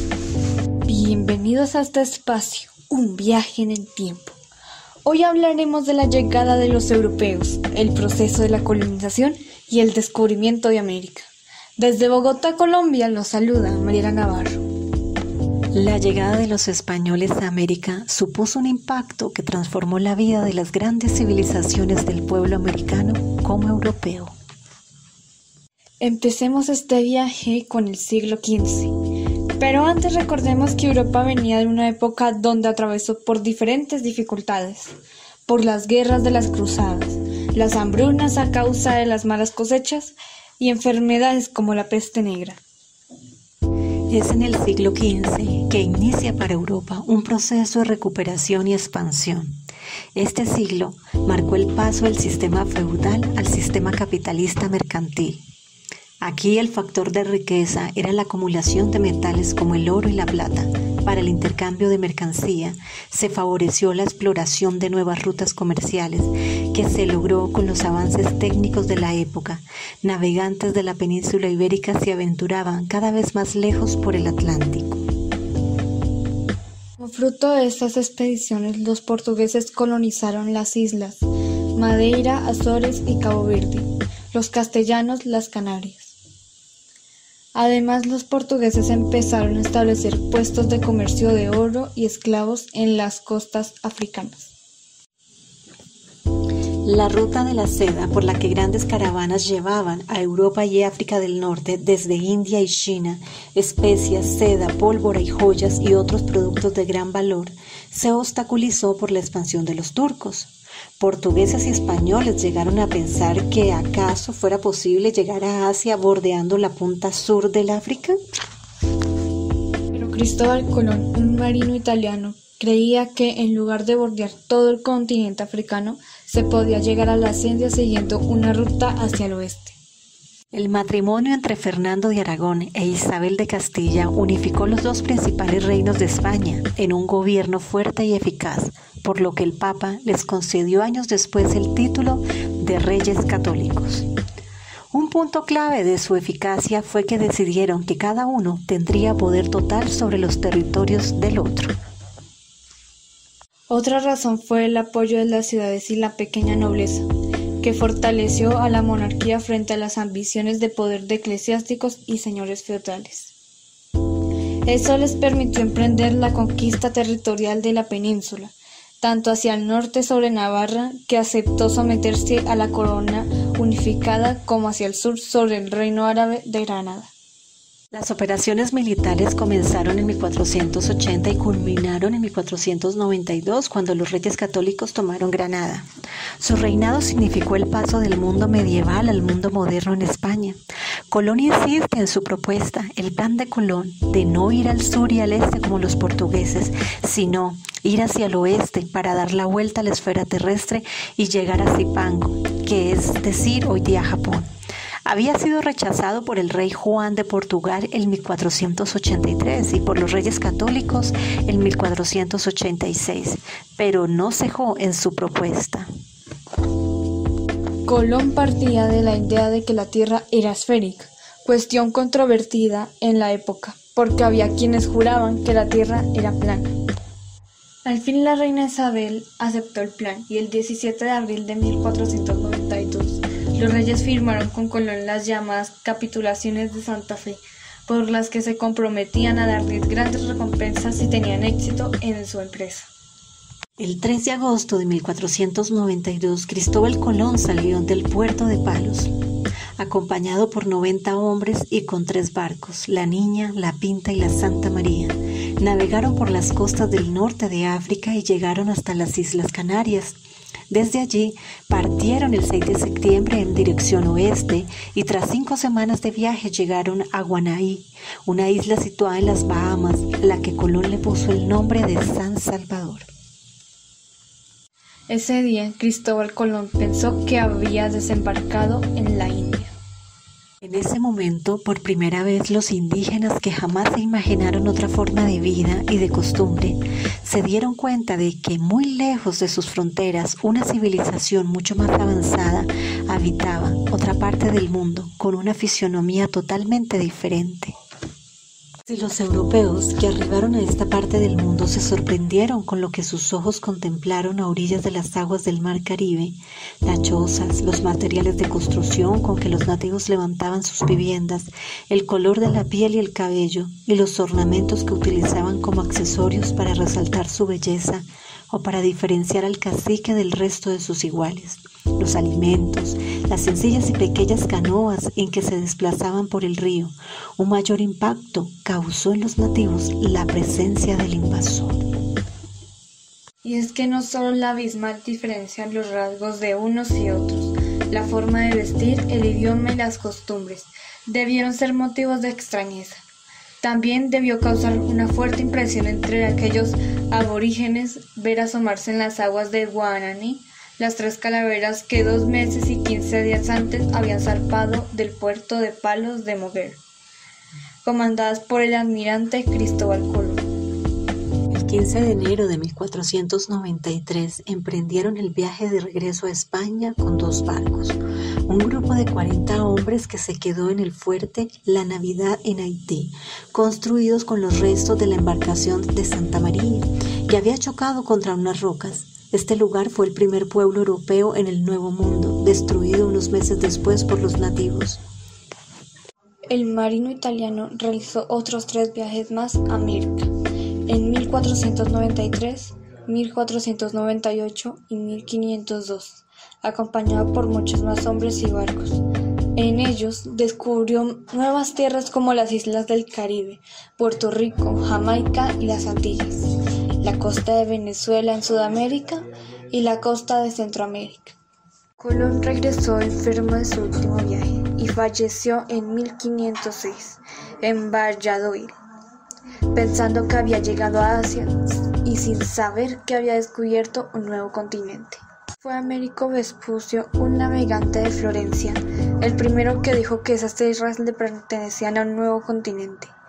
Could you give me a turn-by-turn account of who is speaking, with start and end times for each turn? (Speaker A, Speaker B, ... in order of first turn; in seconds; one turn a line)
Speaker A: 0.9-4.4
Speaker A: 5.0-14.6
Speaker B: 15.7-24.3
Speaker A: 26.0-28.9
Speaker A: 29.6-34.9
Speaker A: 35.5-42.6
Speaker B: 44.1-49.6
Speaker B: 50.1-55.4
Speaker B: 56.2-75.0
Speaker A: 77.0-86.2
Speaker A: 87.5-94.5
Speaker B: 96.8-118.2
Speaker A: 119.9-129.8
Speaker B: 130.5-144.1
Speaker B: 144.9-151.7
Speaker A: 153.7-157.1
Speaker A: 157.6-163.3
Speaker A: 164.7-177.1
Speaker B: 177.9-185.9
Speaker B: 186.4-190.6
Speaker B: 191.1-204.5
Speaker B: 205.1-215.9
Speaker A: 217.9-226.7
Speaker A: 227.8-242.9
Speaker B: 243.8-249.1
Speaker B: 249.8-260.2
Speaker B: 260.7-273.1
Speaker A: 275.1-279.7
Speaker B: 280.6-297.7
Speaker B: 298.9-331.8
Speaker A: 333.4-343.0
Speaker A: 343.6-356.8
Speaker A: 357.8-360.5
Speaker B: 361.5-385.0
Speaker A: 386.5-390.3
Speaker A: 390.9-399.0
Speaker A: 399.6-411.4
Speaker A: 412.0-418.8
Speaker A: 419.7-433.1